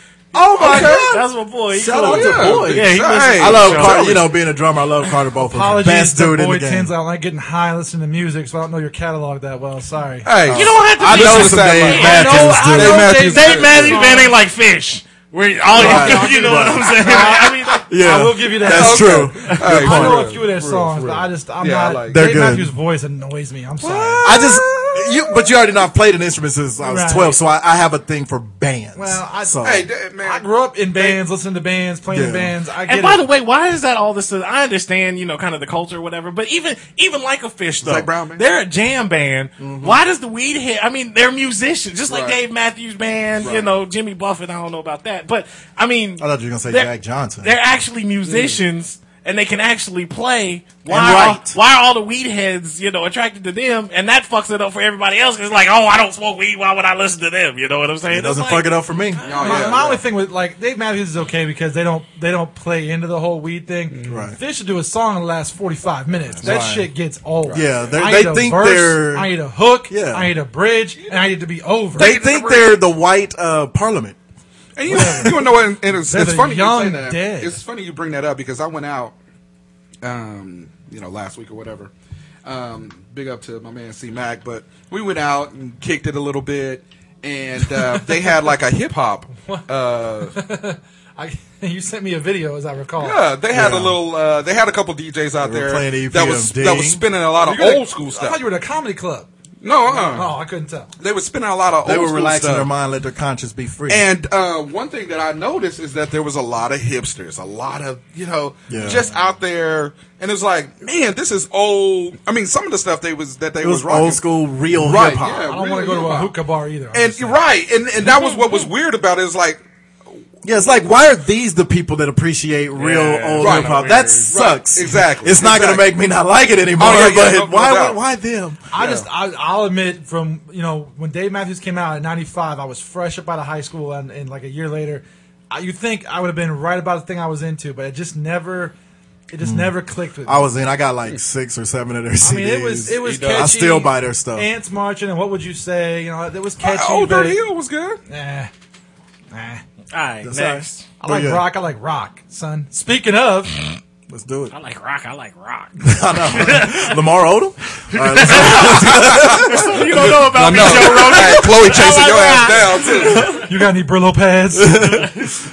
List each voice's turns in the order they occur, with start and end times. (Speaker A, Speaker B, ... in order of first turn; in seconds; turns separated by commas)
Speaker A: 0.3-6.9, Speaker B: 0.6-1.2, Speaker C: 0.6-4.2, Speaker B: 2.0-4.3, Speaker D: 5.4-10.3, Speaker B: 10.2-14.1, Speaker A: 10.5-13.2, Speaker C: 10.5-12.6, Speaker D: 12.0-14.3, Speaker C: 13.3-17.9, Speaker A: 15.7-16.8, Speaker D: 15.7-24.4, Speaker B: 15.8-16.6, Speaker A: 17.9-20.3, Speaker B: 18.6-22.4, Speaker A: 22.1-22.7, Speaker B: 23.8-25.5, Speaker A: 24.2-29.9, Speaker D: 26.8-27.4, Speaker D: 29.0-29.6, Speaker B: 29.6-30.5, Speaker D: 30.2-33.2, Speaker A: 32.1-32.5, Speaker C: 32.9-59.6, Speaker B: 37.8-38.4, Speaker A: 39.6-40.0, Speaker B: 42.1-42.4, Speaker B: 43.4-43.7, Speaker A: 46.2-47.5, Speaker B: 48.3-48.6, Speaker A: 50.9-51.6, Speaker A: 58.1-59.5, Speaker B: 59.2-60.0, Speaker D: 59.4-72.1, Speaker B: 63.9-64.3, Speaker A: 64.1-64.4, Speaker A: 66.4-66.9, Speaker B: 67.4-68.0, Speaker A: 67.5-69.3, Speaker A: 69.9-70.3, Speaker B: 71.9-72.8, Speaker A: 72.0-74.2, Speaker B: 74.8-79.2, Speaker A: 74.9-75.4, Speaker D: 74.9-75.5, Speaker D: 76.1-77.6, Speaker B: 80.0-81.9, Speaker B: 82.5-90.3, Speaker D: 90.3-93.2, Speaker B: 93.0-98.4, Speaker A: 93.5-94.0, Speaker A: 95.4-97.0, Speaker D: 97.4-99.3, Speaker B: 99.6-100.3, Speaker D: 99.9-100.9, Speaker B: 101.0-102.7, Speaker A: 101.8-104.0, Speaker B: 103.9-116.3, Speaker A: 108.7-109.0, Speaker A: 113.6-115.5, Speaker D: 115.5-117.4, Speaker B: 116.9-119.6, Speaker A: 120.4-128.6, Speaker C: 122.7-124.4, Speaker B: 123.4-126.0, Speaker B: 126.7-128.0, Speaker D: 128.7-138.8, Speaker B: 128.7-129.1, Speaker D: 139.3-140.5, Speaker A: 139.4-139.8, Speaker A: 140.3-144.5, Speaker D: 142.2-147.4, Speaker B: 143.0-143.6, Speaker B: 146.6-148.0, Speaker D: 148.1-148.5, Speaker D: 149.3-149.6, Speaker C: 149.9-150.9, Speaker A: 150.2-151.4, Speaker D: 151.0-153.6, Speaker A: 154.1-154.5, Speaker C: 154.5-157.0, Speaker A: 155.8-161.4, Speaker C: 157.9-163.4, Speaker B: 158.3-163.4, Speaker A: 163.0-163.4, Speaker D: 163.4-165.1, Speaker A: 164.6-165.4